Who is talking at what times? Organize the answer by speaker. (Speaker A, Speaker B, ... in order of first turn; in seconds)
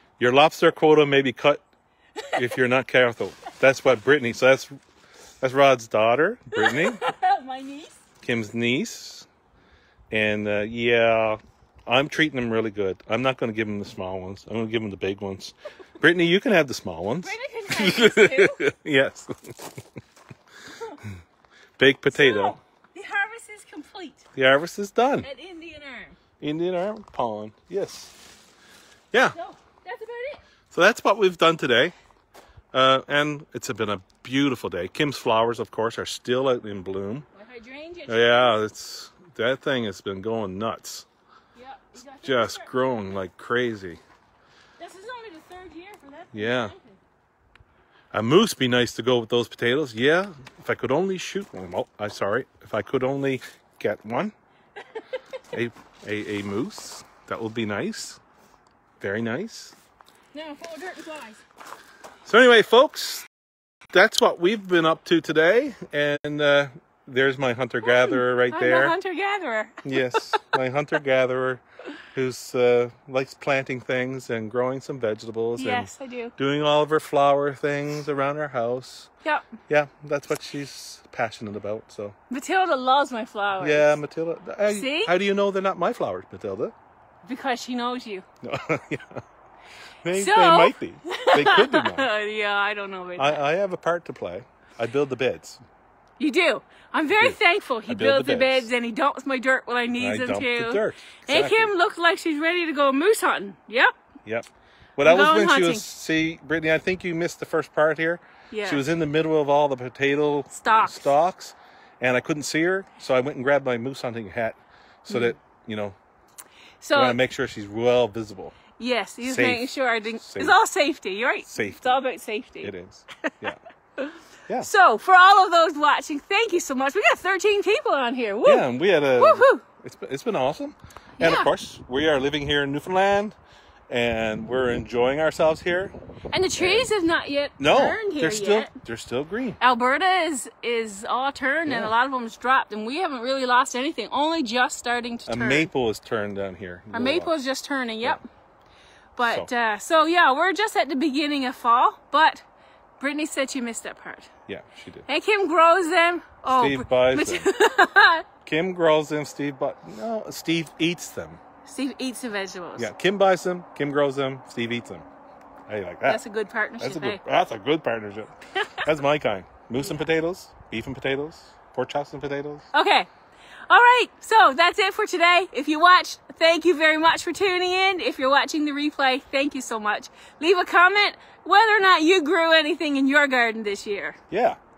Speaker A: 0.2-1.6, 2.4-4.8, 5.4-7.0, 8.2-9.3, 10.1-19.7, 21.8-22.6, 24.4-25.3, 26.4-28.1, 30.7-31.9, 32.7-37.2, 38.1-41.0, 42.0-44.0, 46.3-46.7, 48.1-54.3, 55.5-58.2, 59.0-59.7, 62.2-63.2, 63.9-69.0, 69.8-71.6, 72.1-79.1, 79.7-82.2, 83.6-86.7, 88.4-89.2, 90.0-92.1, 93.2-95.6, 97.1-98.7, 100.0-101.7, 104.2-116.0, 116.9-118.6, 119.2-120.6, 121.5-121.9, 122.6-123.6, 128.4-133.4, 133.9-135.9, 136.6-136.9, 137.6-139.6, 141.7-141.9, 145.3-147.3, 154.5-155.1, 156.4-157.5, 158.4-161.4, 162.8-165.1, 165.7-166.2, 166.8-172.7, 184.3-184.6
Speaker B: 2.1-2.6, 6.5-8.0, 17.2-18.6, 20.7-21.0, 22.1-24.3, 25.2-26.2, 29.3-30.4, 37.3-38.6, 41.5-42.9, 44.8-47.0, 60.3-61.4, 67.8-70.4, 75.6-76.3, 79.2-79.5, 82.3-84.0, 84.7-85.1, 87.2-88.2, 90.1-93.4, 96.2-103.9, 105.0-105.9, 108.5-108.8, 110.5-111.1, 115.1-115.3, 116.8-117.2, 118.8-122.7, 124.0-129.6, 131.2-131.5, 136.3-138.7, 139.6-145.7, 146.9-148.2, 149.2-152.4, 153.0-154.3, 155.1-158.3, 161.7-162.9, 166.0-167.2, 169.8-170.1, 172.7-173.1, 173.7-184.2